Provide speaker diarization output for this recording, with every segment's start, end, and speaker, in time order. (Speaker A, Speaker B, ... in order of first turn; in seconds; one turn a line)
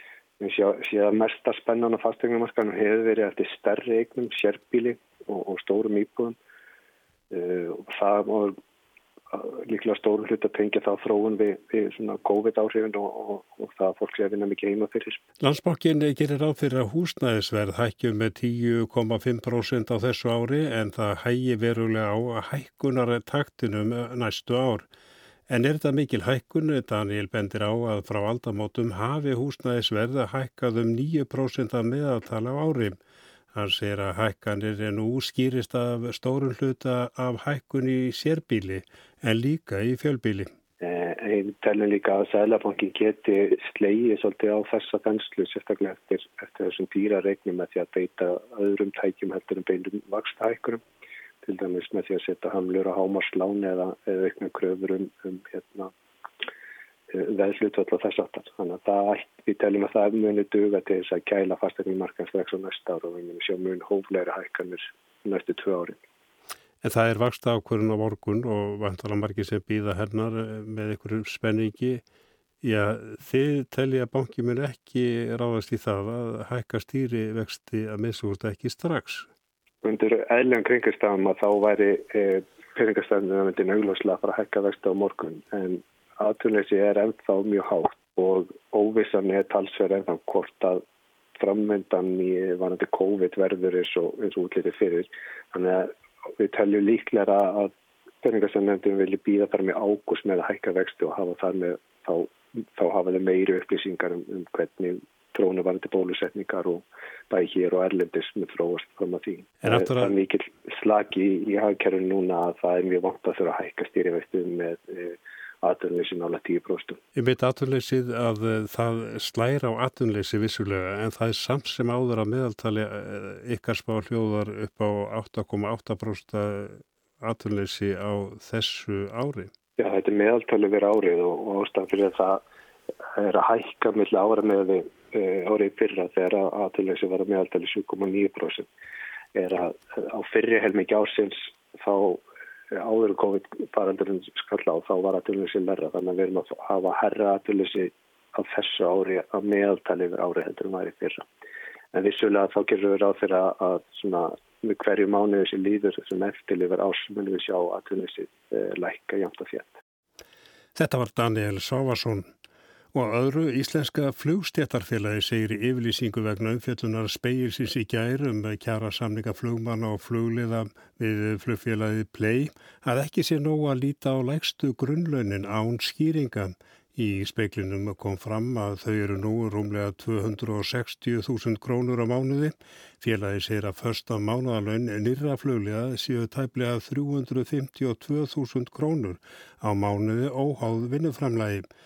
Speaker A: 0.4-6.3
Speaker A: 7.3-8.6
Speaker A: 9.3-15.2
Speaker B: 15.4-24.9
Speaker B: 25.5-33.0
Speaker B: 33.5-40.5
Speaker A: 40.8-50.8
Speaker A: 51.4-55.9
Speaker A: 57.1-66.0
Speaker B: 66.8-72.0
Speaker B: 72.6-79.3
Speaker A: 79.8-90.8
Speaker A: 91.4-117.0
Speaker B: 109.6-110.1
Speaker B: 117.1-129.5
Speaker A: 129.8-132.4
Speaker A: 133.2-138.7
Speaker A: 139.3-151.2
Speaker A: 151.9-159.8
Speaker B: 160.7-162.2
Speaker B: 162.9-191.6